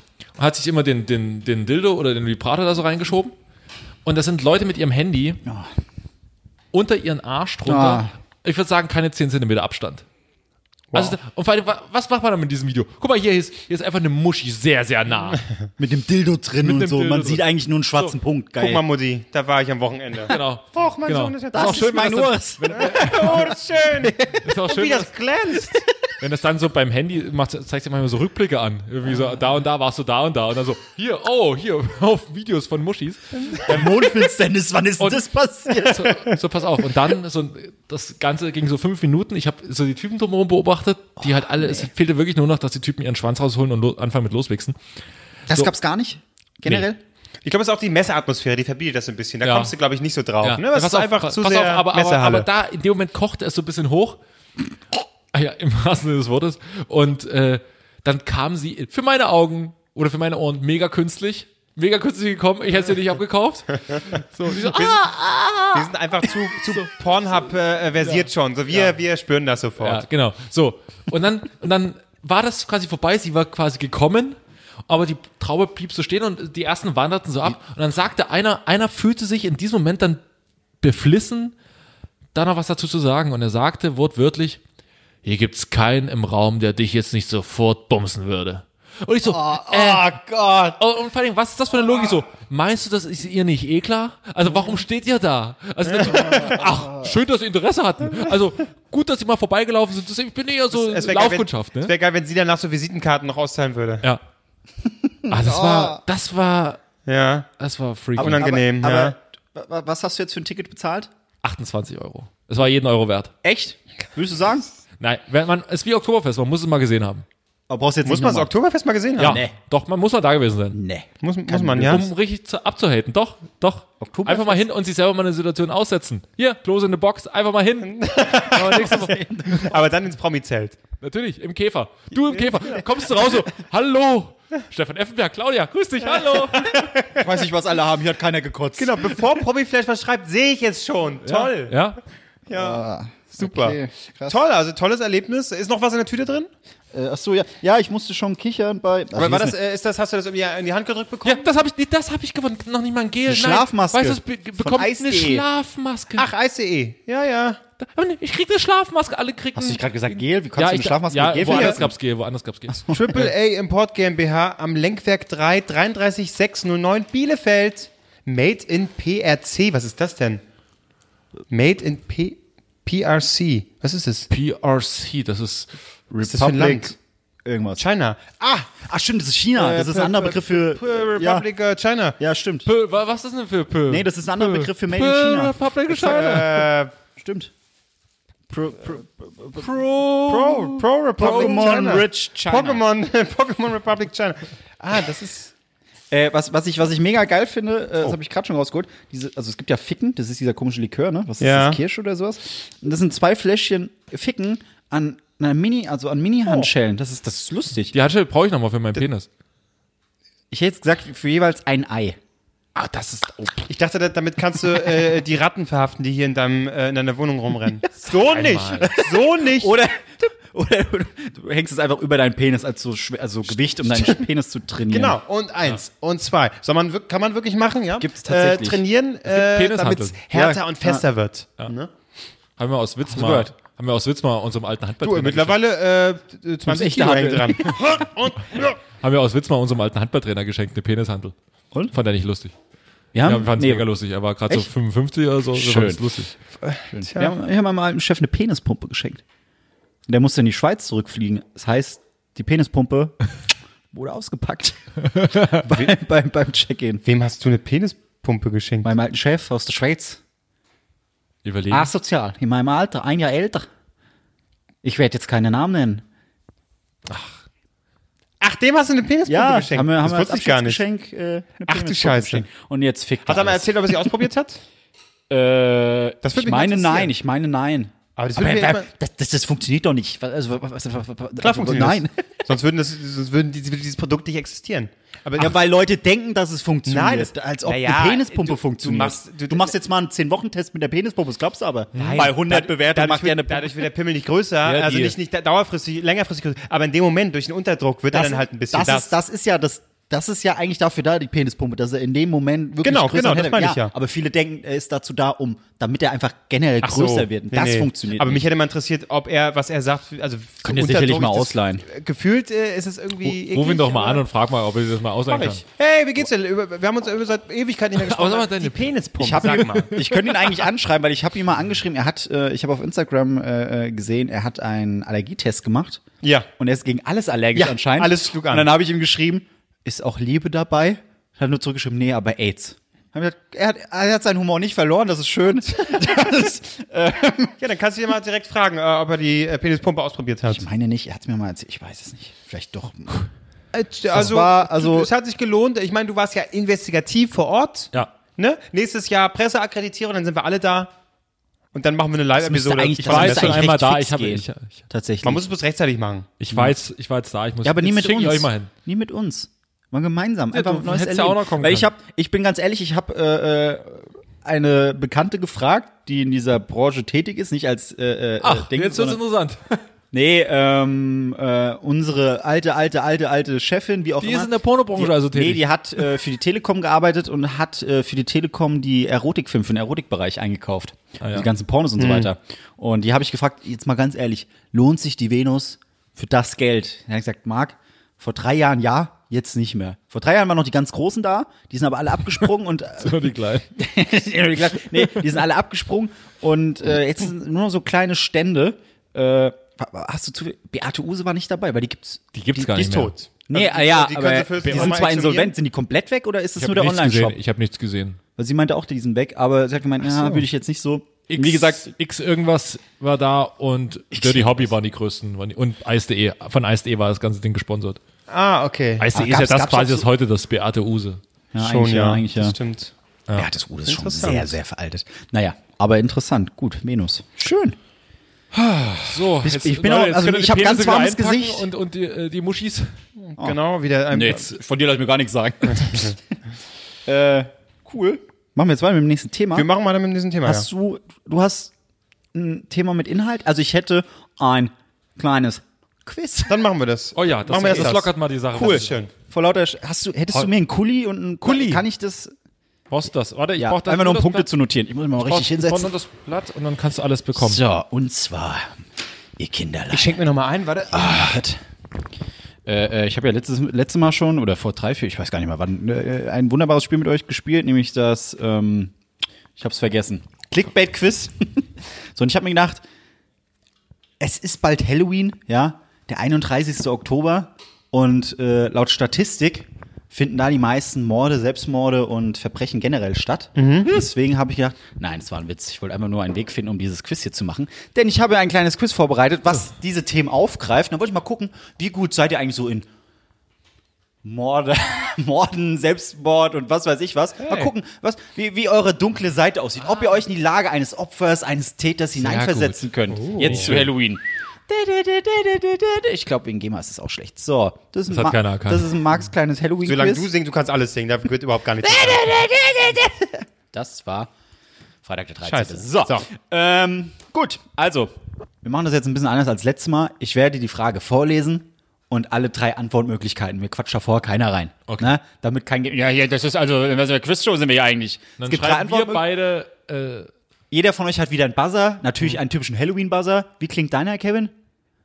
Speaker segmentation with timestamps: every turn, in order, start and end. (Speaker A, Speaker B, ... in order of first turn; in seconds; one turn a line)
Speaker A: 0.4-3.4
Speaker A: 4.0-5.4
Speaker B: 5.4-5.7
Speaker A: 6.7-10.1
Speaker B: 7.7-8.1
Speaker C: 10.9-11.2
Speaker A: 10.9-15.4
Speaker B: 15.8-18.8
Speaker A: 16.6-17.4
Speaker C: 18.6-21.9
Speaker A: 20.3-23.5
Speaker B: 21.5-24.4
Speaker C: 22.8-25.9
Speaker A: 24.4-25.1
Speaker A: 26.2-33.9
Speaker B: 33.6-36.1
Speaker A: 35.0-44.8
Speaker B: 41.2-41.9
Speaker B: 45.5-47.0
Speaker C: 47.4-52.5
Speaker A: 49.4-49.7
Speaker A: 50.4-54.2
Speaker A: 55.3-65.9
Speaker C: 64.6-65.0
Speaker C: 65.7-70.0
Speaker A: 68.0-68.9
Speaker A: 69.8-80.2
Speaker A: 80.8-81.5
Speaker A: 82.3-84.6
Speaker A: 85.2-90.2
Speaker B: 89.2-90.8
Speaker A: 90.8-101.9
Speaker C: 95.9-96.4
Speaker B: 96.3-97.1
Speaker C: 100.7-104.0
Speaker B: 104.8-106.0
Speaker A: 105.3-106.8
Speaker C: 107.1-107.5
Speaker A: 107.6-108.4
Speaker B: 108.2-111.1
Speaker C: 108.2-109.2
Speaker A: 111.4-113.3
Speaker B: 113.4-114.7
Speaker A: 115.0-117.2
Speaker B: 117.7-118.5
Speaker C: 118.0-119.4
Speaker B: 119.2-119.5
Speaker A: 119.2-120.8
Speaker B: 120.7-122.1
Speaker C: 121.2-122.1
Speaker A: 121.8-129.2
Speaker B: 124.0-124.7
Speaker C: 127.9-128.9
Speaker B: 128.6-129.8
Speaker C: 129.6-130.8
Speaker A: 131.0-136.9
Speaker C: 136.6-137.3
Speaker B: 137.2-139.3
Speaker C: 138.8-141.8
Speaker A: 141.2-142.0
Speaker C: 142.5-142.8
Speaker B: 142.5-144.4
Speaker C: 143.4-146.5
Speaker B: 146.9-149.6
Speaker C: 149.1-151.4
Speaker A: 151.2-156.3
Speaker B: 153.3-155.4
Speaker C: 156.2-157.6
Speaker A: 157.8-159.8
Speaker B: 159.6-161.9
Speaker A: 160.6-162.9
Speaker C: 161.4-161.8
Speaker B: 162.9-163.3
Speaker C: 162.9-170.4
Speaker C: 171.5-174.3
Speaker A: 174.3-175.8
Speaker C: 176.2-176.9
Speaker B: 176.2-177.8
Speaker C: 177.8-178.7
Speaker B: 178.8-181.4
Speaker C: 179.6-182.2
Speaker B: 182.2-182.7
Speaker A: 182.6-186.7
Speaker B: 183.9-185.6
Speaker C: 185.9-186.9
Speaker B: 187.1-187.5
Speaker B: 188.5-192.8
Speaker A: 189.6-191.7
Speaker C: 190.3-195.5
Speaker B: 196.1-207.9
Speaker C: 201.4-201.8
Speaker A: 207.9-209.3
Speaker B: 210.5-212.2
Speaker A: 212.8-213.7
Speaker C: 213.7-219.8
Speaker A: 218.3-218.9
Speaker B: 218.9-225.2
Speaker C: 223.9-224.2
Speaker C: 224.9-231.9
Speaker B: 228.0-228.8
Speaker A: 229.3-230.2
Speaker B: 230.3-231.0
Speaker A: 232.6-235.6
Speaker B: 233.1-233.5
Speaker C: 235.0-238.8
Speaker B: 236.7-237.8
Speaker A: 239.0-241.3
Speaker A: 241.9-242.5
Speaker B: 243.1-243.9
Speaker A: 243.2-246.3
Speaker B: 245.6-246.1
Speaker C: 246.6-247.3
Speaker B: 246.9-249.2
Speaker B: 250.1-253.1
Speaker B: 253.9-257.0
Speaker C: 257.0-258.9
Speaker B: 258.8-260.2
Speaker A: 261.4-261.9
Speaker B: 261.7-263.7
Speaker B: 264.8-266.0
Speaker A: 267.1-267.4
Speaker C: 268.4-270.8
Speaker B: 269.2-274.2
Speaker C: 271.7-272.4
Speaker C: 273.3-274.6
Speaker B: 275.3-282.4
Speaker C: 276.2-277.1
Speaker C: 278.2-278.9
Speaker C: 281.4-285.6
Speaker B: 285.4-293.9
Speaker C: 286.9-289.7
Speaker A: 291.9-292.3
Speaker C: 291.9-299.1
Speaker B: 294.6-295.2
Speaker B: 298.1-308.4
Speaker C: 302.8-303.9
Speaker C: 306.8-314.2
Speaker B: 310.6-311.9
Speaker A: 313.2-315.6
Speaker C: 315.3-319.9
Speaker A: 317.9-320.4
Speaker B: 319.2-326.0
Speaker C: 326.2-326.5
Speaker B: 326.6-337.6
Speaker C: 327.5-328.7
Speaker C: 337.6-340.6
Speaker B: 340.5-343.3
Speaker C: 343.7-350.9
Speaker B: 344.1-345.1
Speaker C: 351.7-353.6
Speaker B: 352.4-355.4
Speaker A: 353.0-354.8
Speaker C: 355.2-356.3
Speaker A: 356.4-358.7
Speaker B: 356.5-356.8
Speaker B: 357.6-369.2
Speaker A: 360.5-361.9
Speaker A: 368.4-369.8
Speaker B: 370.1-407.4
Speaker A: 374.2-376.2
Speaker A: 381.2-381.5
Speaker C: 382.0-382.3
Speaker A: 393.0-393.7
Speaker A: 394.9-395.3
Speaker A: 402.3-403.1
Speaker C: 402.9-405.6
Speaker A: 404.7-405.0
Speaker A: 406.6-408.2
Speaker B: 408.4-411.9
Speaker C: 410.1-410.4
Speaker A: 411.3-418.0
Speaker B: 414.2-414.6
Speaker C: 418.3-419.1
Speaker A: 419.0-421.2
Speaker B: 419.1-420.1
Speaker B: 421.5-422.6
Speaker C: 421.6-422.9
Speaker B: 423.3-427.8
Speaker C: 423.9-424.6
Speaker B: 428.5-431.7
Speaker A: 429.0-432.9
Speaker C: 433.2-434.6
Speaker B: 434.1-436.2
Speaker B: 437.1-439.7
Speaker C: 439.6-440.6
Speaker B: 440.4-441.7
Speaker B: 442.3-446.6
Speaker C: 446.5-449.1
Speaker A: 447.1-449.0
Speaker B: 447.6-447.9
Speaker B: 448.6-452.3
Speaker A: 451.4-451.8
Speaker A: 452.9-454.5
Speaker B: 453.6-455.9
Speaker A: 455.2-457.6
Speaker B: 457.4-458.7
Speaker B: 459.4-460.2
Speaker C: 459.9-461.4
Speaker B: 460.9-461.6
Speaker B: 462.6-468.9
Speaker B: 469.6-472.8
Speaker B: 474.2-492.9
Speaker C: 483.6-483.9
Speaker B: 494.2-510.3
Speaker C: 497.4-497.7
Speaker A: 502.2-503.9
Speaker C: 503.4-503.7
Speaker A: 508.1-508.9
Speaker C: 509.9-512.4
Speaker B: 511.8-514.3
Speaker B: 515.0-529.3
Speaker C: 515.4-516.3
Speaker A: 528.4-530.3
Speaker B: 530.7-534.5